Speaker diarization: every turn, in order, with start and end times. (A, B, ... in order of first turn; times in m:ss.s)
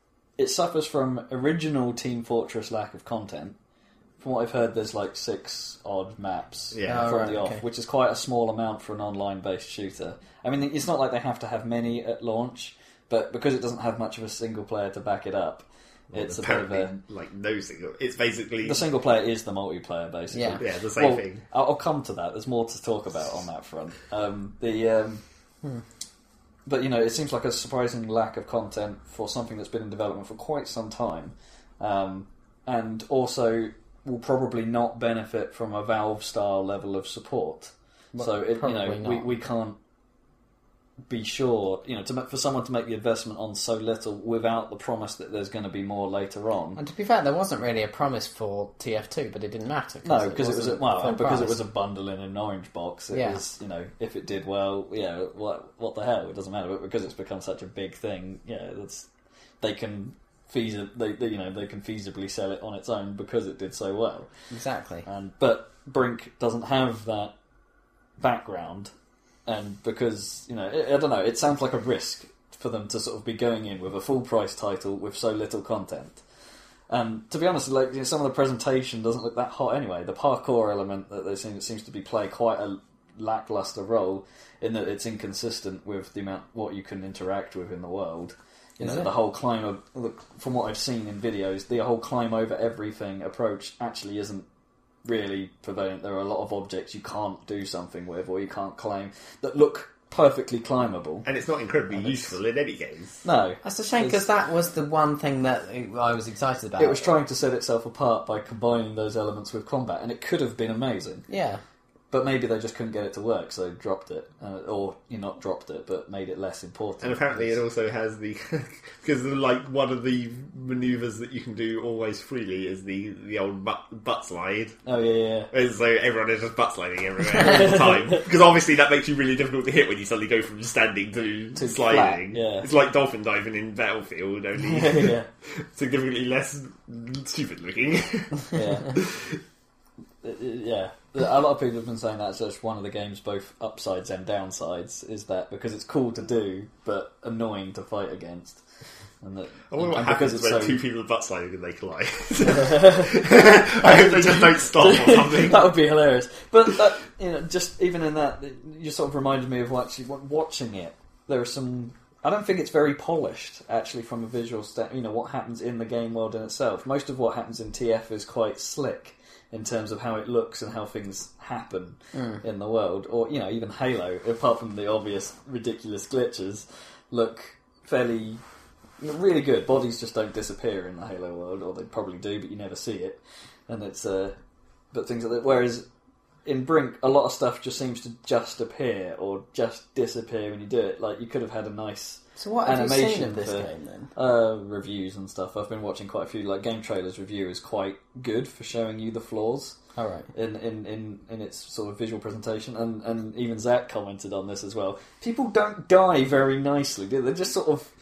0:00.4-0:03.6 A
0:04.2-0:16.9 A
0:06.7-0:07.1 B
0:06.8-0:07.6 C
0:16.1-0:18.8 B
0:18.6-0:25.2 A
0:20.3-0:20.6 C
0:20.6-0:21.4 B
0:26.6-0:39.8 A
0:38.1-0:39.3 C
0:41.1-0:46.8 A
0:46.8-0:51.6 C
0:50.0-0:59.1 A
0:53.1-0:53.4 C
0:59.6-1:04.3 A
1:04.5-1:05.0 C
1:05.0-1:07.3 A
1:08.2-1:08.9 A
1:09.5-1:16.2 A
1:16.9-1:34.4 A
1:28.8-1:29.1 C
1:35.0-1:41.2 A
1:41.2-1:43.2 B
1:41.9-1:42.4 A
1:43.2-1:44.2 A
1:43.6-1:47.1 C
1:46.8-1:51.2 A
1:51.3-1:51.6 C
1:52.1-1:57.6 A
1:57.0-2:04.8 B
2:04.8-2:05.5 A
2:05.5-2:19.4 B
2:07.3-2:08.2 A
2:11.6-2:12.7 A
2:14.6-2:15.3 A
2:18.5-2:19.0 A
2:20.2-2:28.6 A
2:29.2-2:30.8 A
2:29.7-2:35.7 B
2:32.4-2:58.4 A
2:52.1-2:52.4 C
2:59.0-3:04.3 A
3:04.9-3:05.8 A
3:06.4-3:19.8 A
3:12.4-3:14.1 C
3:19.9-3:20.3 C
3:20.3-3:27.9 A